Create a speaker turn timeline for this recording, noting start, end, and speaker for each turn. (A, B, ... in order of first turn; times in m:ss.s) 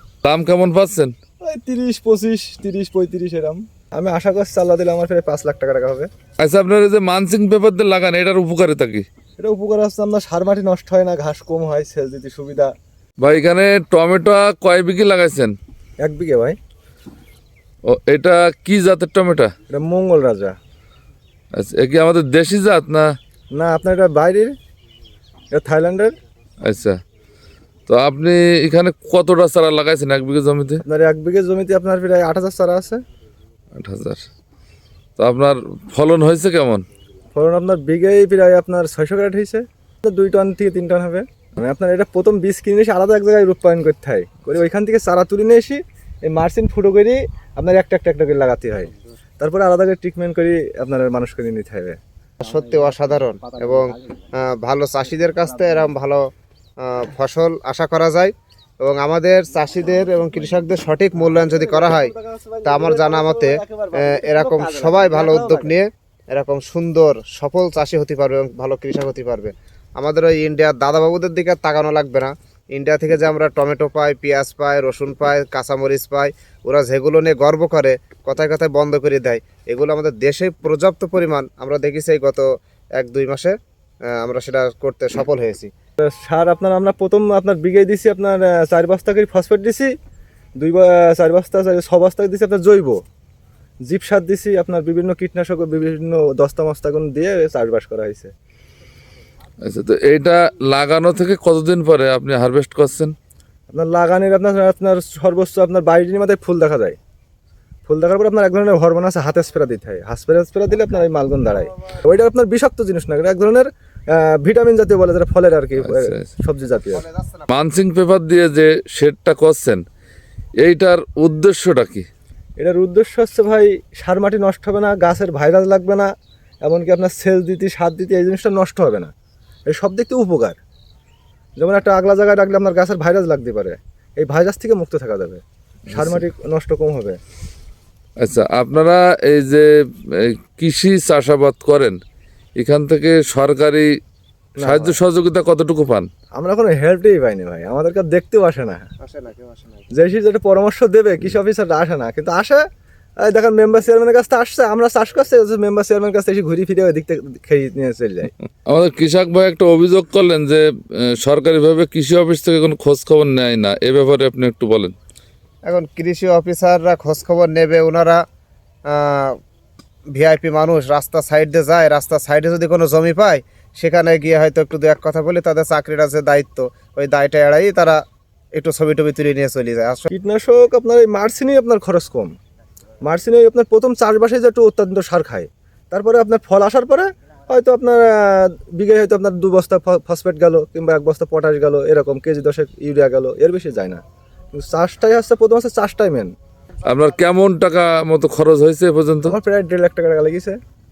0:00.2-0:01.1 A
0:01.4-0:06.1 B
0:06.4-0:09.1 A
0:09.4-0:12.7 B
0:13.2-0:15.5 A
0:16.0-0:16.6 B
0:17.9-0:19.5 A
0:19.7-0:20.6 B
0:21.6-0:23.1 A
0:23.5-0:24.5 B
0:25.5-0:26.1 B
0:26.6-0:27.0 A
0:27.9-0:30.8 A
0:30.8-0:33.0 B
0:33.8-0:34.2 A
0:35.2-0:36.8 A
0:37.3-0:52.0 B
0:52.4-0:56.2 C
0:56.8-1:02.1 C
1:01.3-1:05.8 B
1:02.6-1:22.4 C
1:23.0-1:23.6 C
1:24.1-1:25.7 C
1:26.0-1:29.9 B
1:30.6-1:33.0 B
1:33.9-1:38.3 B
1:39.6-1:43.1 A
1:43.7-1:47.0 B
1:47.9-1:57.0 B
1:55.8-1:56.2 A
1:56.9-1:57.5 C
1:57.5-1:59.8 A
2:00.6-2:02.1 A
2:02.6-2:06.1 B
2:06.6-2:09.1 B
2:09.7-2:10.6 B
2:11.6-2:15.4 B
2:15.9-2:16.2 A
2:15.9-2:17.2 B
2:18.2-2:22.0 A
2:22.6-2:23.9 A
2:24.6-2:25.0 B
2:24.6-2:26.1 A
2:26.4-2:28.9 B
2:29.0-2:29.9 C
2:29.9-2:32.6 B
2:33.2-2:38.3 B
2:38.6-2:44.9 A
2:45.6-2:48.2 C
2:48.9-2:49.4 C
2:50.1-2:58.0 C
2:58.5-3:00.1 C
3:00.1-3:02.3 B
3:03.0-3:14.0 B
3:14.5-3:16.3 B
3:16.8-3:19.3 A
3:19.2-3:20.6 B